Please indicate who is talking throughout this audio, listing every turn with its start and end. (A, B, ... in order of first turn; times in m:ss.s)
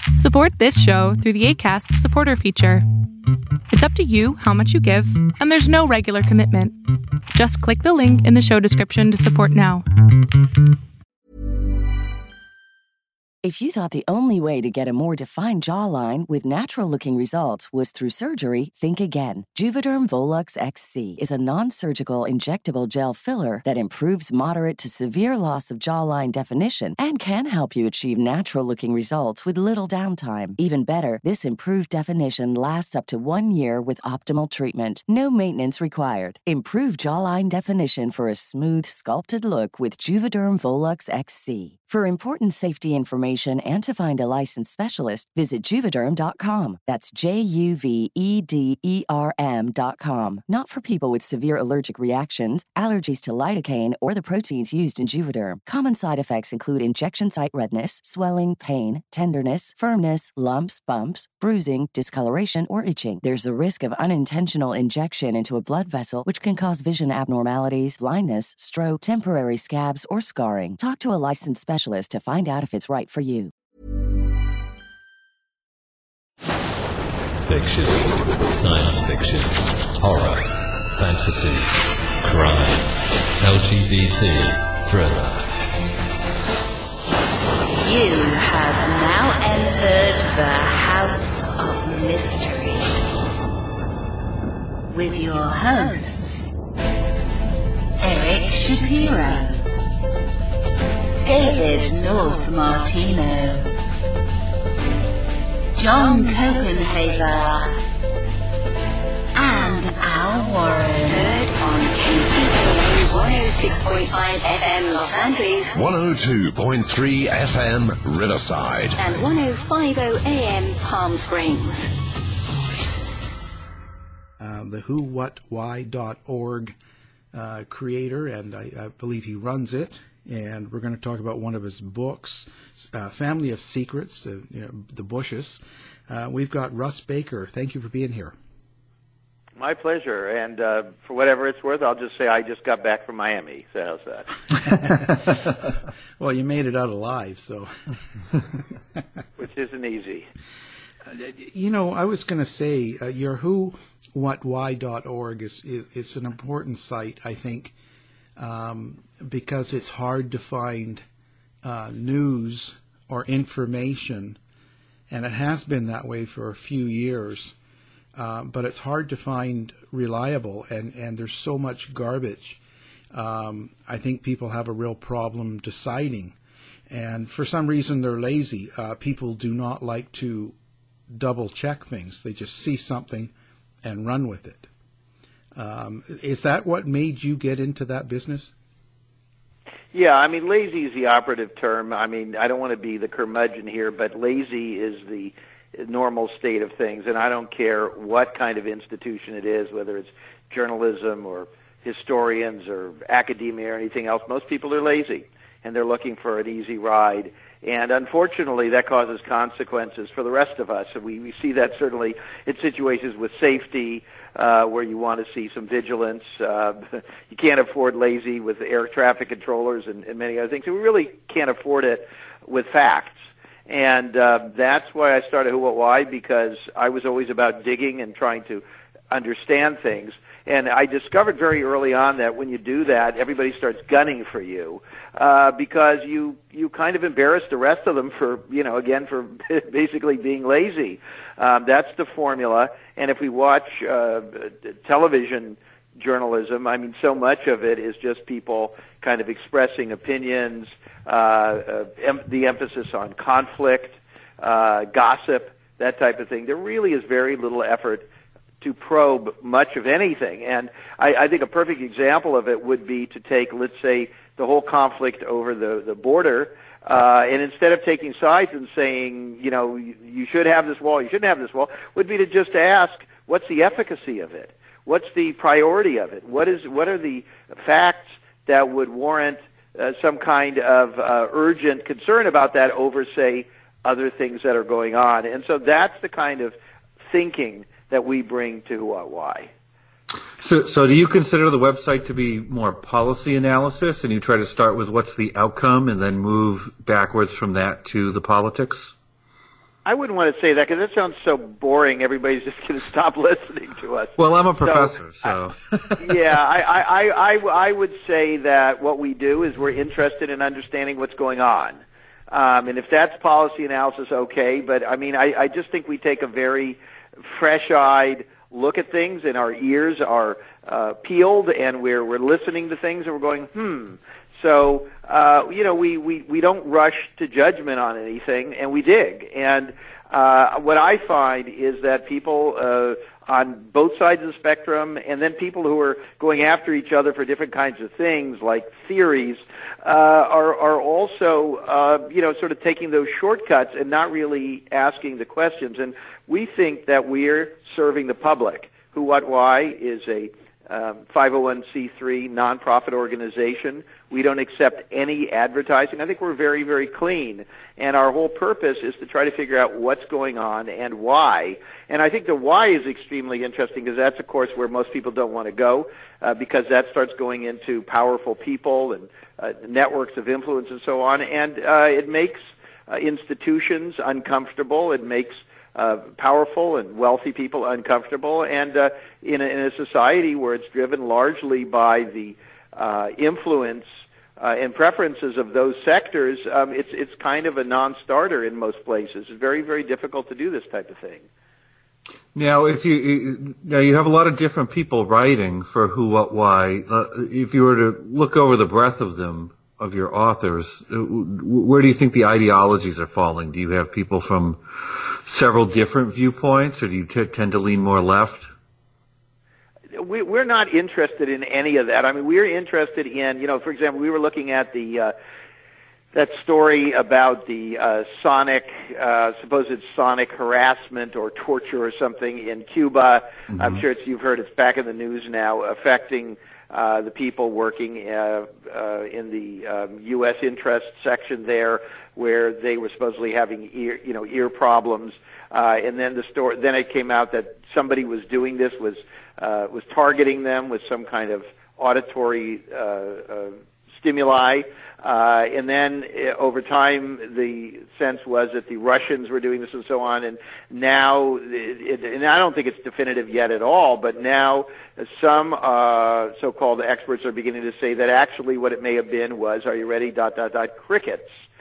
0:00.2-0:02.8 A
0:03.7-0:06.8 A
0:07.3-0:09.8 A
0:13.4-1:13.5 B
1:17.4-1:22.8 C
1:23.4-1:25.5 C
1:27.8-1:33.0 D
1:34.9-1:36.5 D
1:38.0-1:39.6 D
1:41.2-1:43.7 D
1:45.8-1:47.7 D
1:49.4-1:51.4 D
1:51.2-1:55.7 E
1:55.7-1:59.1 F
1:59.0-2:02.0 E
2:04.4-2:06.7 G
2:07.3-2:18.3 G
2:19.6-2:24.3 H
2:24.7-2:25.4 G
2:26.2-2:28.4 G
2:29.4-2:30.3 H
2:31.1-2:37.7 G
2:38.4-2:41.0 G
2:41.6-2:44.4 G
2:45.1-2:47.6 G
2:48.2-2:52.6 G
2:53.1-2:56.4 G
2:56.9-3:00.6 G
3:01.1-3:03.3 G
3:03.8-3:04.7 G
3:05.6-3:08.5 G
3:09.9-4:18.0 H
4:18.6-4:46.5 H
4:47.1-4:49.5 H
4:50.4-4:58.9 I
4:59.8-5:05.3 H
5:04.2-5:06.1 I
5:06.0-6:23.9 H
6:24.4-6:31.2 H
6:32.3-6:48.5 I
6:49.9-6:55.1 H
6:56.1-7:41.3 H